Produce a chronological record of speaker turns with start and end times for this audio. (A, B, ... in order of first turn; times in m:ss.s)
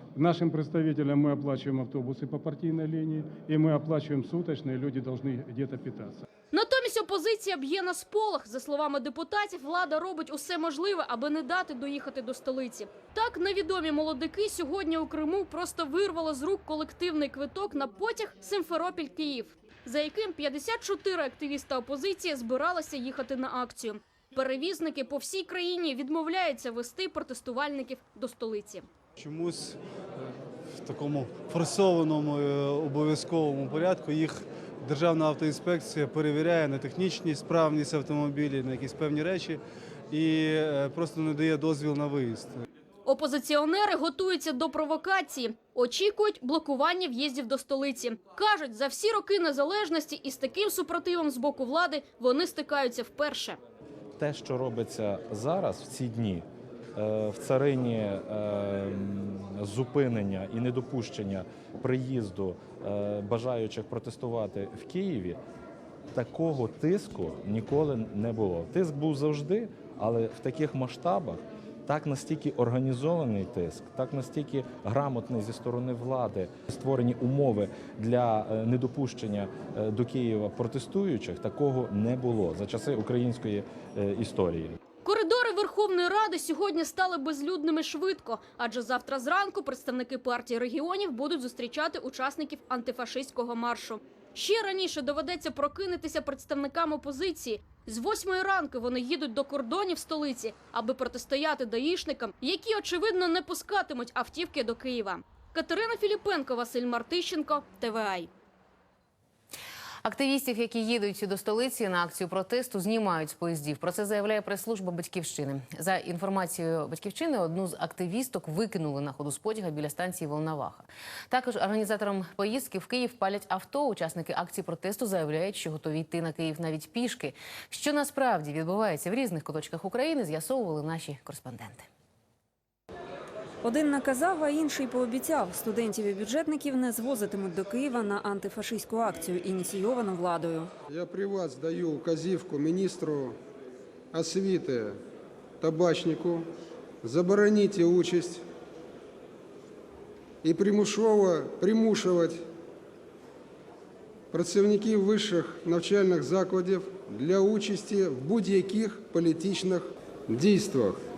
0:00.1-0:06.2 A
0:06.5-0:28.9 B
0:29.2-0:30.3 C
0:30.8-0:39.6 C
0:40.1-0:42.6 C
0:43.0-0:53.6 B
0:54.2-1:05.4 D
1:06.1-1:24.8 D
1:25.0-1:48.3 B
1:50.0-2:11.9 E
2:13.6-2:20.7 F
2:20.9-2:23.4 G
2:24.1-2:24.9 G
2:25.6-2:26.4 G
2:27.0-2:28.4 G
2:30.4-2:32.4 G
2:34.3-2:41.0 G